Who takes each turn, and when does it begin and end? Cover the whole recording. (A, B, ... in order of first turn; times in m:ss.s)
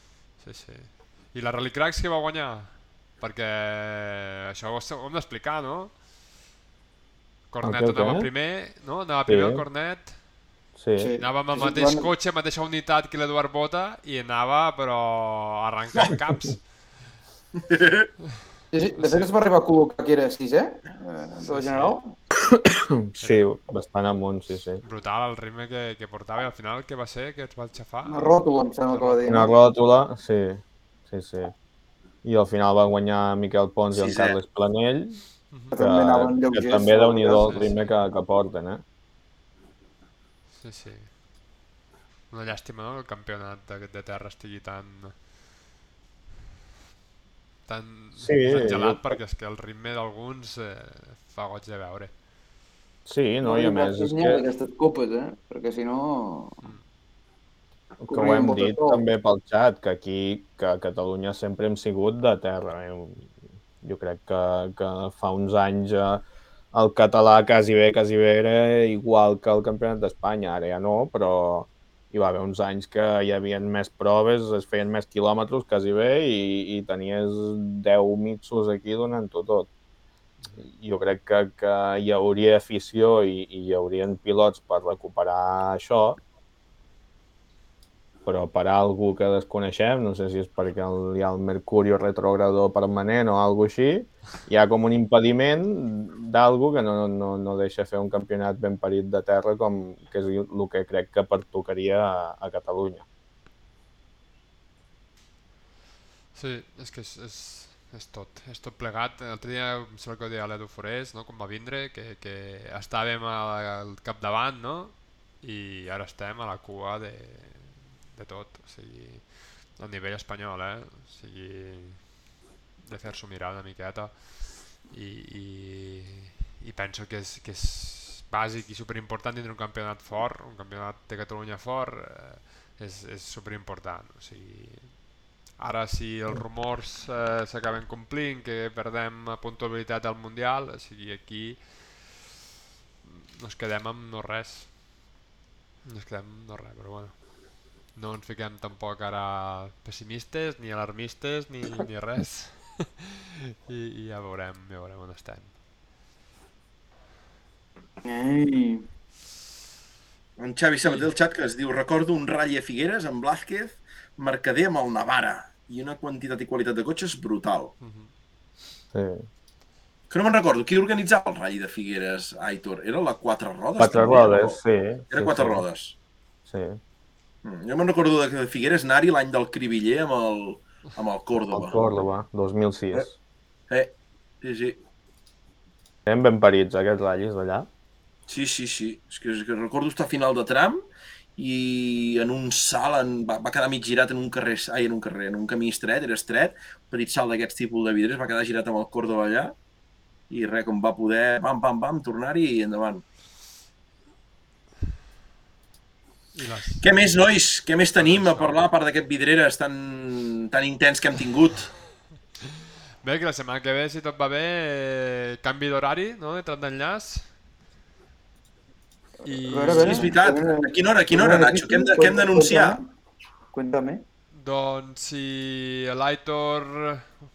0:00.4-0:06.0 A
0:07.5-0:10.2 A
0:07.6-0:08.3 B
0:09.3-0:09.6 B
0:10.8-0:11.1 B
0:11.0-0:12.1 C
0:11.2-0:17.1 A
0:17.6-0:18.1 D
0:18.7-0:22.2 C
0:19.0-0:19.3 A
0:21.4-0:22.0 A
0:23.1-0:24.8 B
0:23.2-0:23.5 A
0:24.8-0:28.4 A
0:28.1-0:29.5 C
0:28.9-0:29.4 A
0:29.2-0:31.5 B
0:32.2-0:35.2 B
0:33.9-0:34.4 D
0:35.7-0:38.8 B
0:35.7-0:37.7 C
0:37.4-0:37.7 A
0:40.6-0:41.1 A
0:42.3-0:45.2 A
0:47.7-0:52.1 A
0:48.2-0:49.2 B
0:53.1-0:54.4 B
0:53.4-0:56.6 C
0:58.0-1:06.2 B
0:58.1-0:59.0 C
1:06.7-1:19.7 B
1:20.6-1:26.2 B
1:28.2-1:43.0 B
1:46.3-2:02.1 A
2:02.8-2:22.1 A
2:23.0-2:24.7 A
2:25.8-2:27.3 A
2:27.9-2:33.0 A
2:33.7-2:35.5 A
2:38.0-2:38.9 C
2:40.4-2:47.7 D
2:47.8-2:48.1 A
2:48.9-2:49.3 B
2:50.1-2:54.6 D
2:53.8-2:55.6 B
2:55.1-2:56.0 D
2:56.5-2:56.8 B
2:57.4-3:02.0 D
3:01.5-3:03.1 B
3:03.7-3:04.8 D
3:06.1-3:07.7 B
3:08.3-3:10.8 D
3:11.4-3:19.5 D
3:20.3-3:23.0 D
3:26.4-3:26.9 A
3:26.8-3:31.7 D
3:28.0-3:28.6 A
3:33.0-3:37.3 A
3:39.2-3:40.2 A
3:39.2-3:42.9 C
3:39.7-3:42.8 D
3:43.5-3:44.0 C
3:44.4-3:47.1 A